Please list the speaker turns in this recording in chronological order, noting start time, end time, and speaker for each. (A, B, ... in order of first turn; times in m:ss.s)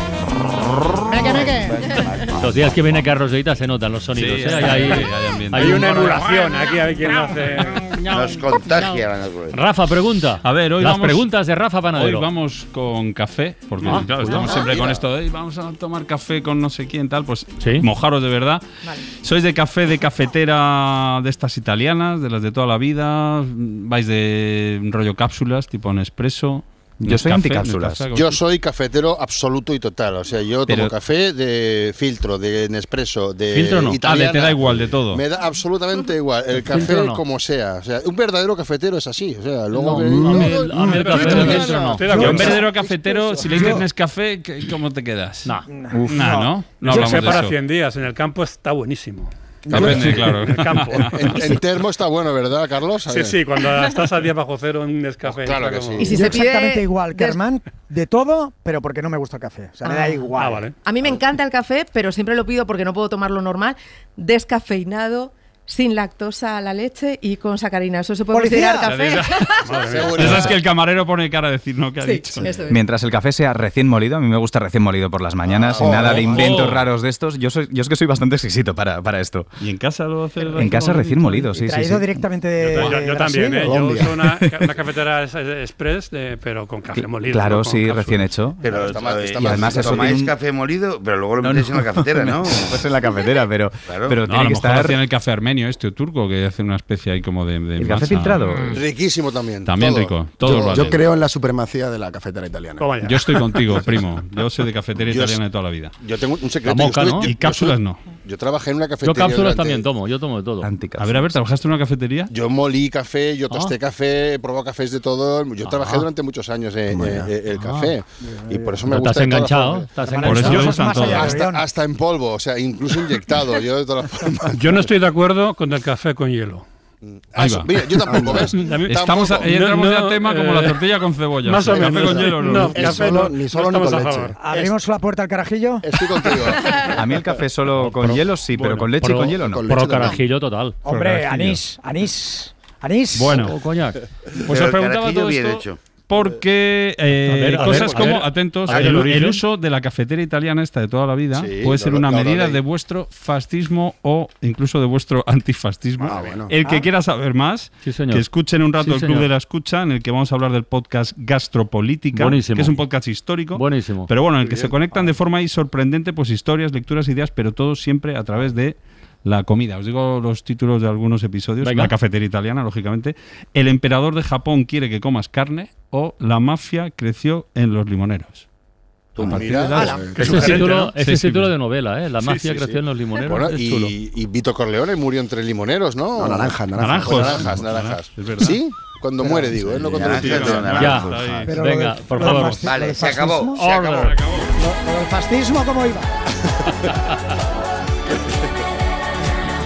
0:01.1-0:01.7 A
0:01.8-0:02.3 B
0:02.4-0:06.2 C
0:04.1-0:06.2 D
0:05.5-0:08.0 E
0:08.1-0:09.6 B
0:09.5-0:12.3 C
0:10.4-0:18.6 D
0:13.8-0:14.6 C
0:14.5-0:15.0 F
0:17.6-0:17.9 C
0:19.2-0:28.4 D
0:27.0-0:28.1 G
0:28.1-0:43.6 F
0:33.5-0:34.1 C
0:34.0-0:35.2 D
0:36.5-0:37.2 C
0:39.7-0:42.4 C
0:40.8-0:42.6 E
0:41.2-0:47.6 D
0:43.5-0:43.8 A
0:45.7-0:46.9 A
0:46.8-0:51.3 E
0:49.7-0:51.4 D
0:49.7-0:53.4 F
0:53.1-0:56.1 E
0:55.2-0:56.2 F
0:56.0-0:57.4 H
0:56.1-1:00.6 A
0:59.8-1:00.3 H
1:00.4-1:00.7 E
1:00.8-1:09.7 H
1:08.3-1:08.9 A
1:08.8-1:09.6 D
1:09.6-1:10.2 E
1:09.6-1:10.6 F
1:10.1-1:12.5 D
1:12.0-1:12.8 H
1:12.7-1:19.5 G
1:15.4-1:16.8 F
1:15.9-1:16.8 D
1:19.6-1:21.3 D
1:20.5-1:22.2 G
1:21.6-1:23.8 A
1:22.6-1:28.4 E
1:23.6-1:24.1 I
1:24.2-1:24.5 G
1:26.9-1:28.6 G
1:28.6-1:32.8 B
1:28.6-1:30.2 F
1:29.4-1:30.3 G
1:31.4-1:35.0 G
1:33.8-1:34.2 B
1:34.2-1:38.7 D
1:37.8-1:38.8 G
1:38.6-1:41.0 F
1:39.6-1:41.0 D
1:40.4-1:43.2 I
1:42.8-1:43.2 E
1:43.0-1:45.9 D
1:45.0-1:45.4 F
1:46.0-1:49.9 F
1:46.6-1:47.3 C
1:47.2-1:48.0 D
1:49.0-1:50.7 C
1:50.6-1:51.4 G
1:51.0-1:52.3 D
1:52.3-1:59.9 F
1:53.5-1:53.7 C
1:55.6-1:56.1 C
1:56.9-1:57.2 I
1:57.6-1:57.9 C
1:58.2-1:58.8 A
1:58.8-2:00.9 C
2:00.0-2:01.6 A
2:00.2-2:01.4 D
2:00.5-2:04.8 F
2:04.5-2:06.6 E
2:07.0-2:09.5 F
2:07.4-2:13.1 D
2:08.5-2:10.8 E
2:11.4-2:14.6 E
2:11.8-2:14.3 F
2:12.4-2:14.3 I
2:14.4-2:15.8 A
2:15.8-2:16.9 F
2:16.8-2:19.8 G
2:17.8-2:21.6 C
2:19.4-2:20.2 I
2:20.8-2:23.5 A
2:20.9-2:21.2 D
2:23.1-2:23.6 D
2:23.4-2:24.0 C
2:24.5-2:25.8 B
2:24.5-2:58.4 D
2:27.2-2:29.4 C
2:31.3-2:32.6 F
2:36.0-2:36.5 F
2:37.8-2:39.3 C
2:42.1-2:42.8 C
2:43.5-2:44.1 C
2:44.4-2:44.8 F
2:51.6-2:51.9 C
2:59.2-3:00.6 F
2:59.2-3:01.6 D
3:00.1-3:03.9 C
3:00.2-3:00.9 E
3:02.2-3:11.0 F
3:06.2-3:07.5 I
3:06.7-3:08.6 D
3:09.8-3:11.5 B
3:10.1-3:11.5 D
3:10.7-3:12.8 C
3:11.4-3:13.6 A
3:12.5-3:14.2 B
3:13.5-3:14.2 C
3:14.1-3:14.4 D
3:14.6-3:16.1 A